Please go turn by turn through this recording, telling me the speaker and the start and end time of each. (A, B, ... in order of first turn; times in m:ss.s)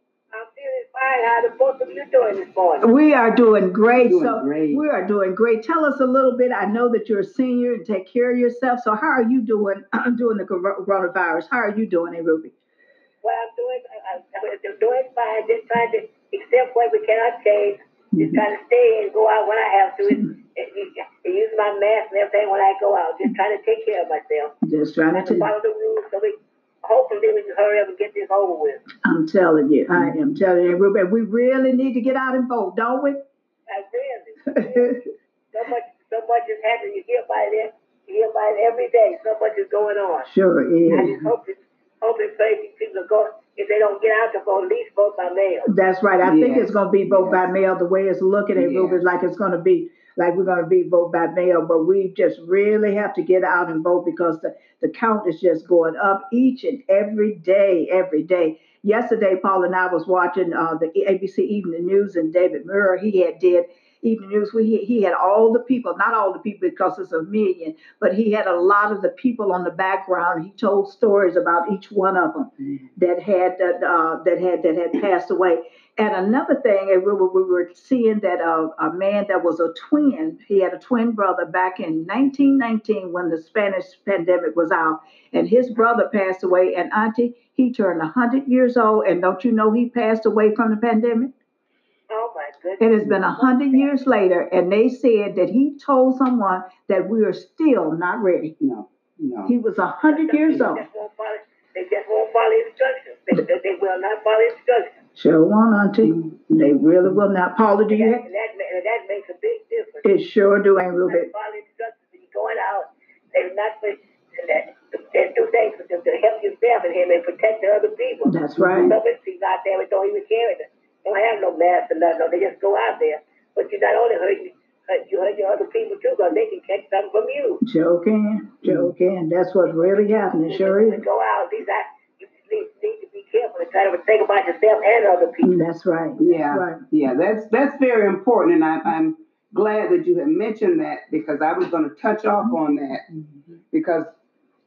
0:00.3-0:02.9 A
0:02.8-0:12.6 B
0:04.0-0:04.8 C
0:13.2-0:24.5 A
0:18.2-0:18.4 B
0:20.0-0:20.3 B
0:24.6-0:25.5 B
0:25.1-0:28.8 A
0:29.0-0:33.2 B
0:33.7-0:40.3 A
0:34.5-0:35.0 B
0:40.3-0:41.2 B
0:40.9-0:45.7 A
0:40.9-0:41.2 C
0:45.7-1:31.3 B
0:46.2-0:47.5 C
0:48.6-0:49.0 C
1:32.1-1:34.1 A
1:32.8-1:38.6 B
1:38.6-1:39.5 C
1:39.5-1:40.8 B
1:40.0-1:44.9 A
1:45.2-1:48.2 B
1:46.0-1:47.2 C
1:47.9-1:50.1 A
1:50.0-1:51.3 B
1:51.1-2:07.6 A
1:58.3-1:59.0 B
1:58.6-1:58.9 C
2:07.6-2:11.0 B
2:08.6-2:08.9 C
2:09.7-2:15.6 A
2:15.4-2:16.8 B
2:16.2-2:23.1 C
2:23.7-2:24.1 C